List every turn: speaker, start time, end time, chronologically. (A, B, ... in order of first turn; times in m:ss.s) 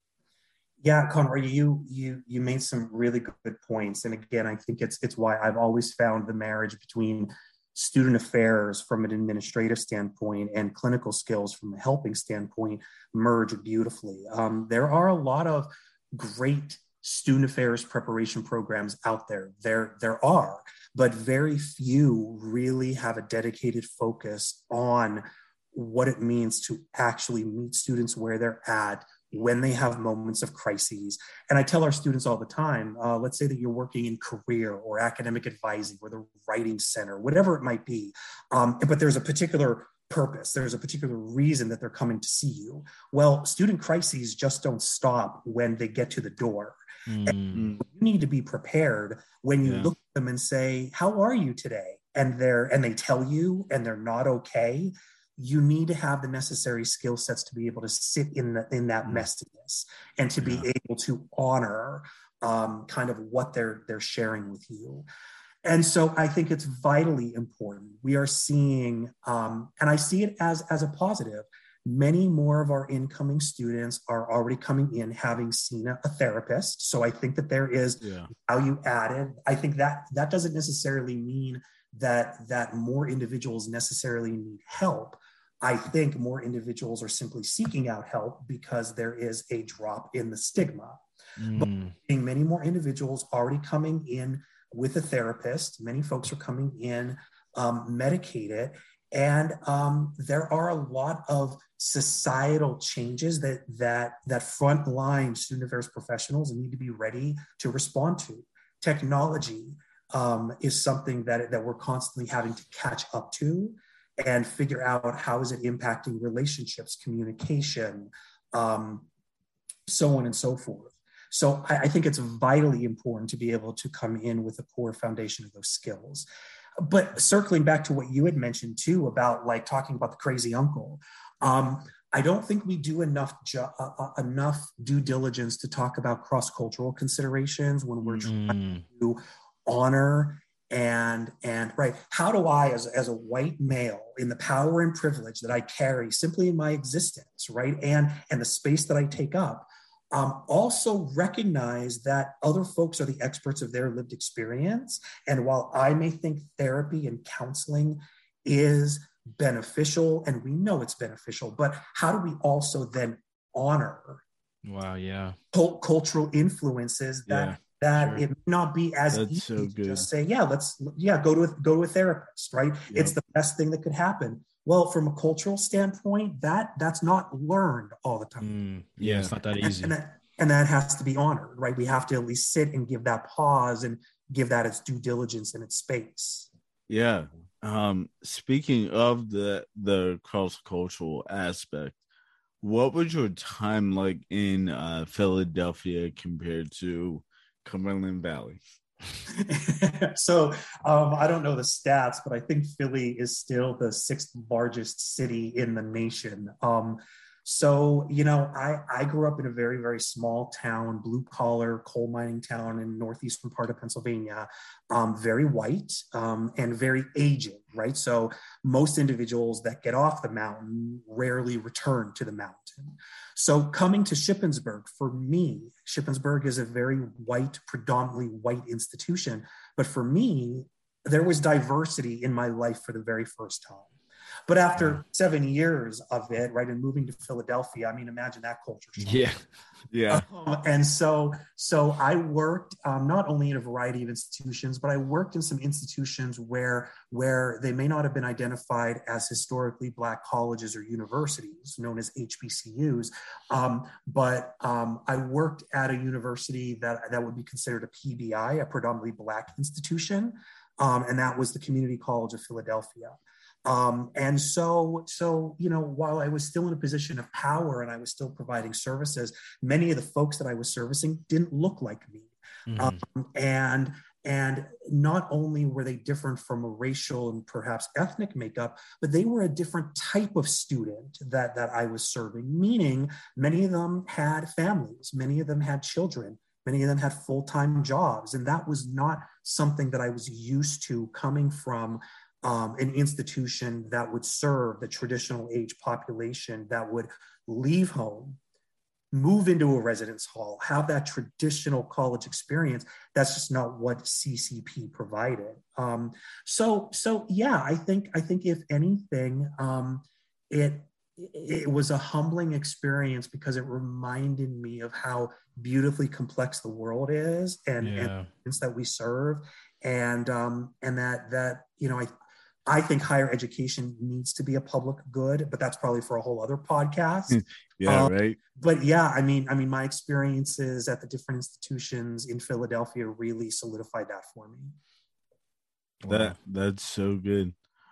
0:00.8-1:05.0 A
0:47.1-0:47.6 B
0:47.5-0:47.8 C
0:49.6-0:49.9 C
1:00.4-1:00.6 C
1:05.6-1:31.0 A
1:18.0-1:18.3 C
1:31.4-1:31.9 B
1:31.5-1:59.1 A
1:59.9-2:06.3 A
2:06.8-2:44.2 A
2:18.2-2:18.8 B
2:44.6-2:45.4 B
2:45.5-2:58.5 A
2:47.3-2:47.6 C
2:49.1-2:50.1 C
2:58.4-3:00.0 B
2:59.0-2:59.3 C
2:59.6-3:06.5 A
3:06.9-3:12.0 C
3:12.6-3:18.6 C
3:19.3-3:53.9 A
3:54.5-3:59.3 A
3:59.0-3:59.4 B
3:59.9-4:00.2 C
4:00.1-4:58.4 A
4:32.7-4:33.0 B
4:59.1-5:22.1 A
5:17.8-5:18.3 B
5:22.7-5:34.8 A
5:27.3-5:28.4 C
5:36.0-5:36.4 B
5:36.1-5:37.5 C